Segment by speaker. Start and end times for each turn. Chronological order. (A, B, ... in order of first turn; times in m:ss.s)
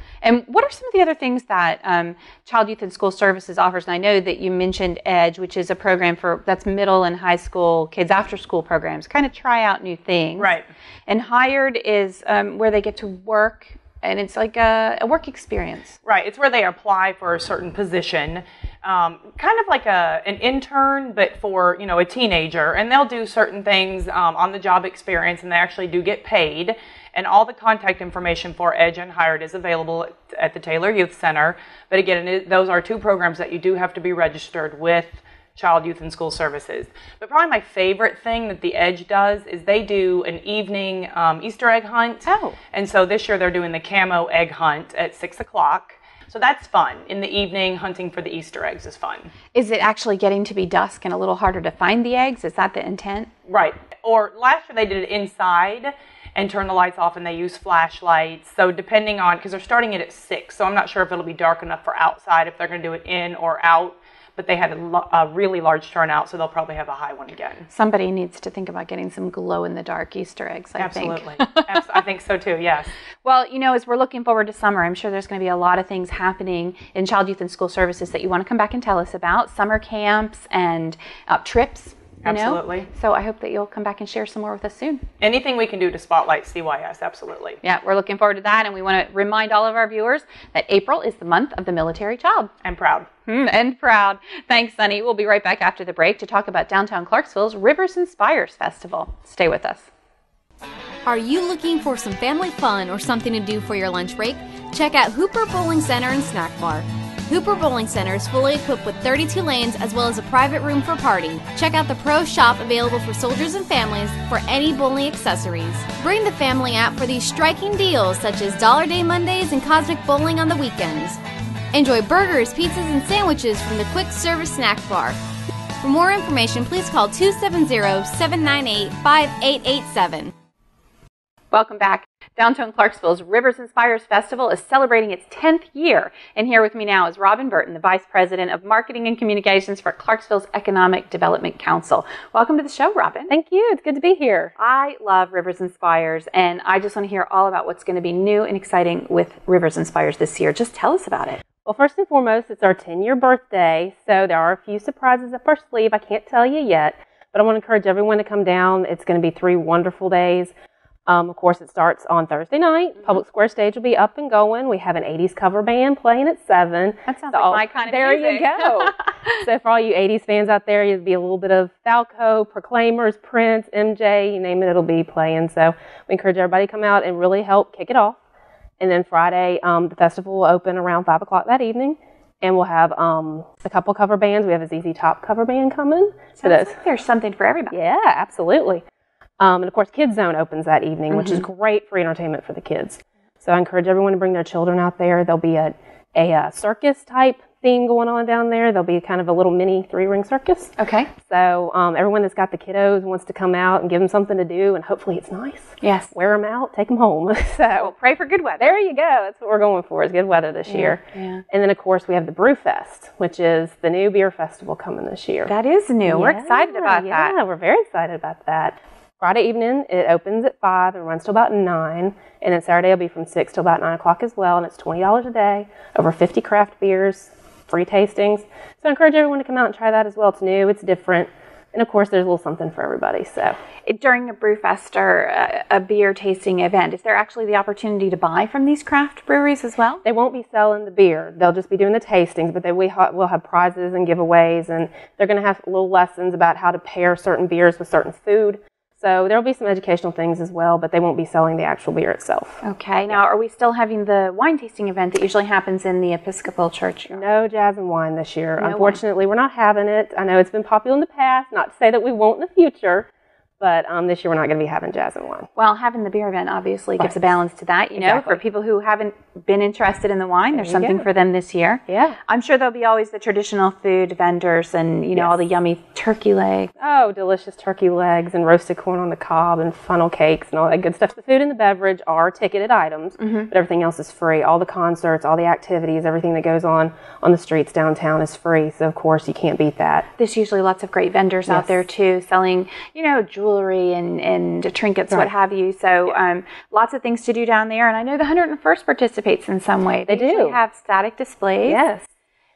0:00.2-0:10.5 A
0:10.4-0:10.7 B
0:11.1-0:16.0 A
0:16.0-0:49.3 B
0:42.2-0:42.6 A
0:49.5-0:53.3 A
0:53.5-1:07.6 B
1:07.7-1:11.7 A
1:10.8-1:12.9 B
1:13.2-1:25.0 A
1:22.2-1:22.9 B
1:25.2-1:27.6 B
1:27.6-1:32.5 A
1:32.6-1:33.1 B
1:33.2-1:39.9 A
1:41.0-2:01.2 C
2:01.7-2:05.2 C
2:05.8-2:10.3 C
2:11.5-2:23.3 A
2:23.3-2:24.5 D
2:24.6-2:31.4 A
2:31.6-2:40.5 D
2:41.1-2:58.2 D
2:47.1-2:49.4 A
2:58.8-3:06.8 D
3:06.4-3:07.8 A
3:07.7-3:08.8 D
3:09.4-3:27.9 D
3:11.1-3:11.4 A
3:20.8-3:21.1 A
3:25.8-3:26.1 A
3:27.8-3:28.8 A
3:28.6-3:35.5 D
3:30.7-3:31.4 A
3:35.5-3:37.3 A
3:36.0-3:53.6 D
3:53.8-4:00.0 A
4:00.0-4:13.2 D
4:12.6-4:17.3 A
4:17.1-4:23.1 D
4:18.6-4:19.0 A
4:23.6-4:25.5 D
4:25.6-4:36.7 A
4:27.9-4:28.4 D
4:30.5-4:31.1 D
4:31.9-4:32.2 D
4:35.1-4:35.4 D
4:36.8-4:50.1 D
4:43.2-4:43.5 A
4:50.2-5:01.8 A
4:51.5-4:51.8 D
5:00.1-5:00.6 D
5:01.7-5:02.1 D